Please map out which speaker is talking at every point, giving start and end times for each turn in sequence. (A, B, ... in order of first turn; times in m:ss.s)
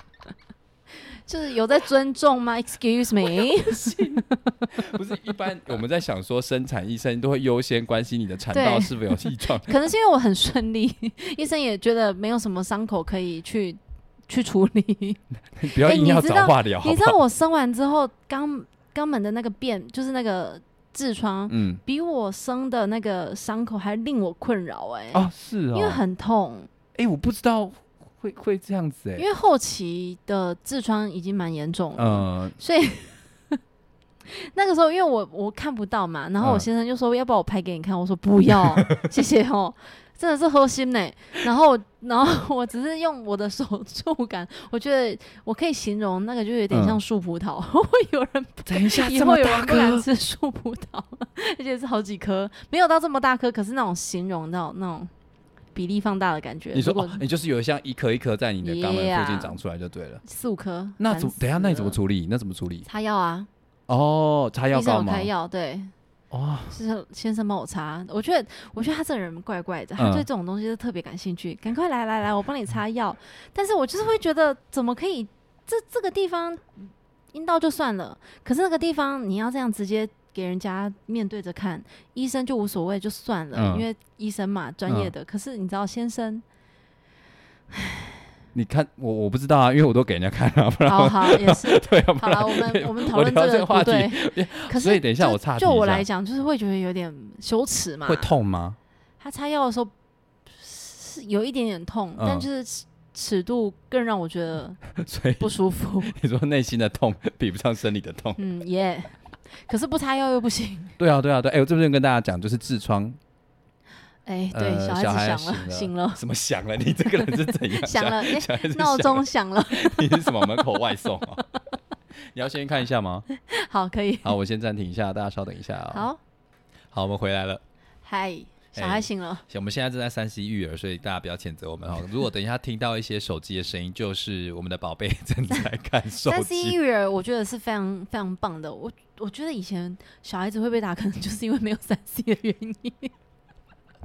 0:01.3-0:04.7 A
0:03.2-0:09.7 B
0:08.5-0:26.7 A
0:15.6-0:17.2 B
0:21.5-0:21.8 B
0:25.1-0:26.0 B
0:26.9-0:29.2 B
0:29.2-0:33.6 A
0:32.0-0:32.6 B
0:34.3-0:55.1 A
0:36.4-0:36.6 B
0:46.7-0:47.0 B
0:48.6-0:50.0 B
0:55.7-0:57.2 A
0:56.7-1:00.2 B
0:58.6-0:59.6 A
1:00.2-1:02.0 A
1:01.0-1:02.8 B
1:02.8-1:03.5 A
1:03.9-1:05.3 B
1:04.7-1:05.9 A
1:06.3-1:06.7 B
1:06.7-1:26.4 A
1:10.0-1:10.3 B
1:23.5-1:23.8 B
1:27.7-1:28.1 A
1:28.5-1:36.0 B
1:30.8-1:38.3 A
1:38.0-1:38.8 B
1:39.2-1:39.9 A
1:40.6-1:44.8 A
1:42.2-1:42.5 B
1:44.9-1:45.5 B
1:45.4-1:46.2 A
1:46.0-1:48.4 B
1:48.4-1:51.0 A
1:51.0-1:53.2 B
1:54.2-1:56.2 A
1:54.5-2:01.4 B
1:57.2-2:00.8 A
2:02.3-2:03.2 B
2:03.4-2:04.3 A
2:04.2-2:06.1 B
2:05.9-2:06.2 A
2:06.9-2:07.6 B
2:08.0-2:09.4 A
2:08.8-2:16.8 B
2:16.2-2:23.1 A